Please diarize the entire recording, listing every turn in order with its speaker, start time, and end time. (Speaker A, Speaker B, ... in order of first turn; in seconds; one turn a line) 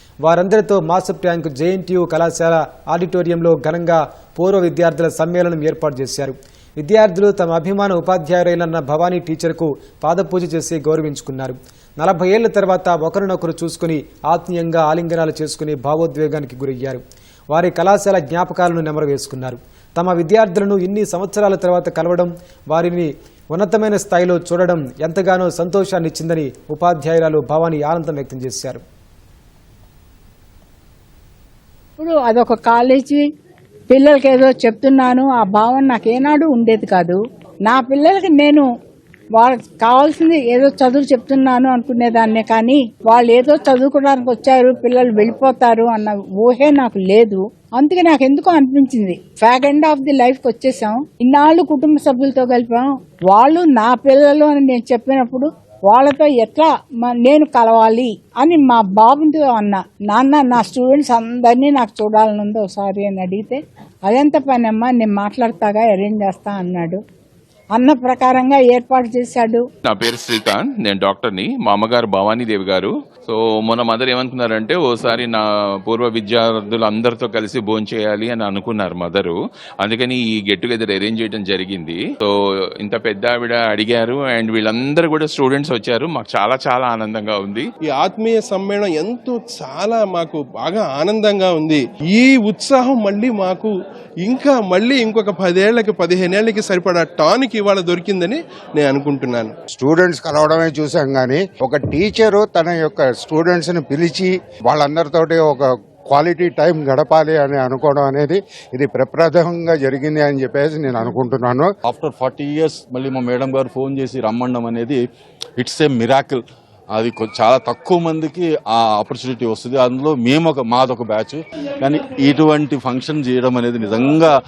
Speaker A: 0.2-28.8
Speaker B: 32.0-33.2
Speaker B: 33.9-38.6
Speaker B: 39.3-67.0
Speaker B: 67.7-69.6
Speaker C: 69.8-87.7
Speaker D: 87.9-93.7
Speaker D: 94.2-99.5
Speaker E: 99.7-111.7
Speaker F: 111.8-115.0
Speaker F: 115.6-116.4
Speaker F: 116.9-124.3